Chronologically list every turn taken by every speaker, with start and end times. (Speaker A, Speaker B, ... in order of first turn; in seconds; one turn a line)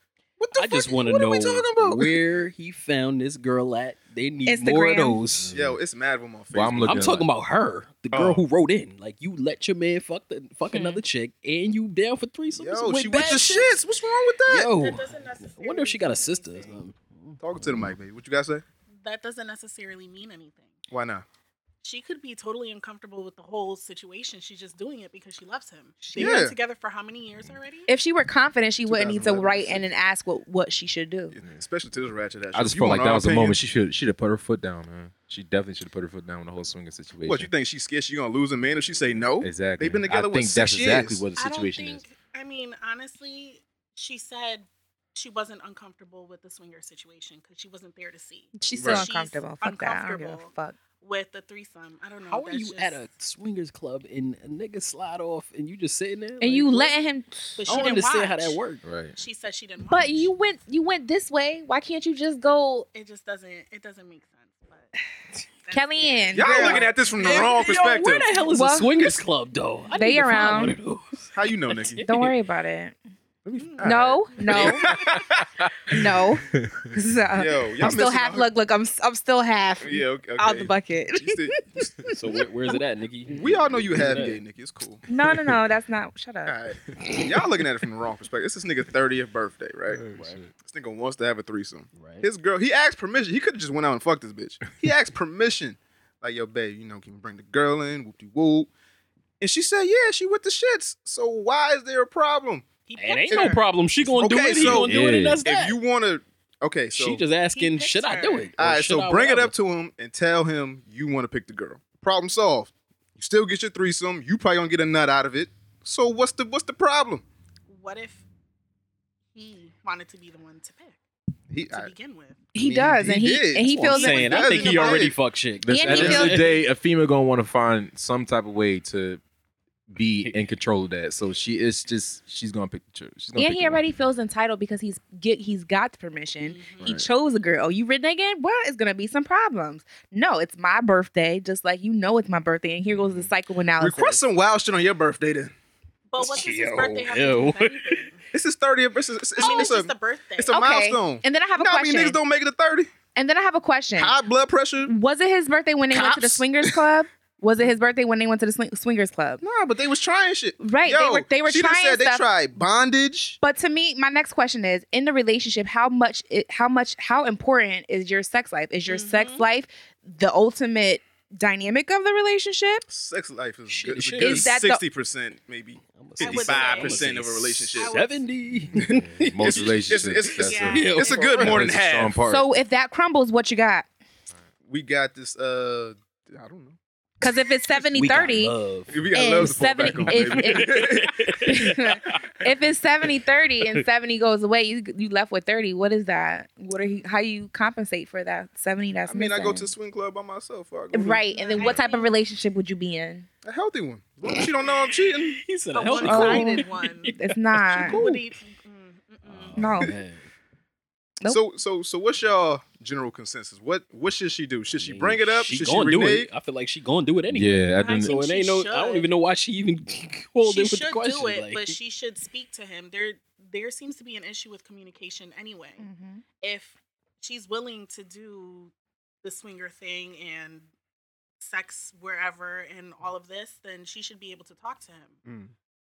Speaker A: 0.4-2.2
Speaker B: 0.6-5.5
Speaker C: 4.5-5.2
Speaker D: 5.4-5.8
Speaker A: 5.5-7.2
Speaker D: 6.5-7.3
Speaker B: 6.8-13.8
Speaker A: 8.1-8.5
Speaker C: 10.7-11.0
Speaker A: 12.5-14.7
Speaker B: 14.5-17.4
Speaker E: 14.7-16.8
Speaker A: 17.4-18.6
Speaker E: 19.0-20.8
Speaker A: 20.9-21.2
Speaker E: 21.8-27.9
Speaker A: 26.2-26.6
Speaker C: 27.9-31.4
Speaker A: 28.9-29.9
Speaker A: 31.3-33.7
Speaker D: 32.5-37.5
Speaker A: 37.2-41.2
Speaker D: 39.4-42.0
Speaker E: 41.4-53.1
Speaker C: 48.6-50.8
Speaker A: 48.8-49.0
Speaker B: 52.3-56.9
Speaker C: 56.4-57.9
Speaker E: 57.6-58.6
Speaker B: 57.6-58.8
Speaker D: 58.8-59.1
Speaker E: 59.2-60.3
Speaker C: 59.9-62.9
Speaker E: 62.9-64.9
Speaker E: 65.7-67.5
Speaker C: 65.7-66.9
Speaker A: 66.3-68.3
Speaker B: 67.2-72.3
Speaker C: 68.5-69.1
Speaker C: 69.9-70.8
Speaker A: 71.3-72.0
Speaker C: 72.0-73.0
Speaker A: 73.5-75.5
Speaker E: 73.6-73.8
Speaker C: 73.8-74.9
Speaker C: 75.9-82.2
Speaker D: 76.5-76.9
Speaker A: 77.3-78.5
Speaker A: 79.8-82.1
Speaker B: 82.1-84.4
Speaker A: 83.3-85.0
Speaker C: 85.1-86.6
Speaker A: 86.5-98.7
Speaker D: 89.9-90.5
Speaker B: 90.1-90.4
Speaker B: 91.9-92.3
Speaker A: 99.4-102.7
Speaker E: 102.9-103.6
Speaker B: 103.0-105.8
Speaker A: 103.3-107.2
Speaker D: 104.6-105.4
Speaker B: 106.9-109.5
Speaker E: 107.5-108.5
Speaker A: 108.6-117.2
Speaker E: 117.7-118.2
Speaker E: 119.3-121.0
Speaker A: 121.5-121.9
Speaker E: 121.7-122.4
Speaker C: 122.5-124.4
Speaker A: 122.6-125.2
Speaker B: 123.7-126.5
Speaker E: 124.0-125.1
Speaker D: 125.6-129.2
Speaker C: 125.7-126.5
Speaker A: 125.9-126.2
Speaker D: 129.9-133.8
Speaker C: 133.3-144.2
Speaker E: 136.4-136.8
Speaker D: 136.8-137.1
Speaker A: 143.8-145.5
Speaker E: 146.1-148.2
Speaker B: 146.2-148.0
Speaker A: 148.3-152.9
Speaker E: 149.4-150.6
Speaker C: 150.5-152.2
Speaker C: 153.2-154.2
Speaker A: 154.0-154.9
Speaker C: 154.8-159.4
Speaker A: 155.9-156.8
Speaker A: 159.4-163.4
Speaker C: 160.6-162.2
Speaker C: 163.4-172.8
Speaker E: 168.9-169.5
Speaker A: 172.9-177.9
Speaker B: 173.7-174.5
Speaker C: 174.2-174.8
Speaker B: 175.8-179.7
Speaker E: 176.2-177.1
Speaker E: 177.8-178.2
Speaker A: 178.9-182.2
Speaker D: 178.9-182.5
Speaker E: 180.4-181.6
Speaker B: 180.7-181.7
Speaker C: 182.3-183.9
Speaker A: 184.7-186.8
Speaker C: 187.2-188.6
Speaker B: 187.8-189.5
Speaker A: 188.9-191.3
Speaker C: 189.1-199.7
Speaker B: 190.0-192.2
Speaker A: 199.1-201.7
Speaker C: 200.9-203.3
Speaker E: 201.3-202.2
Speaker A: 203.4-205.4
Speaker B: 205.4-207.2
Speaker E: 205.7-207.1
Speaker C: 206.0-208.0
Speaker E: 207.7-209.6
Speaker A: 207.8-208.2
Speaker B: 209.3-210.2
Speaker C: 209.6-209.9
Speaker A: 211.3-216.3
Speaker B: 214.7-221.8
Speaker D: 217.3-218.1
Speaker E: 217.8-219.1
Speaker E: 220.4-225.8
Speaker C: 225.8-226.2
Speaker E: 226.4-230.7
Speaker E: 231.4-235.2
Speaker A: 235.3-235.5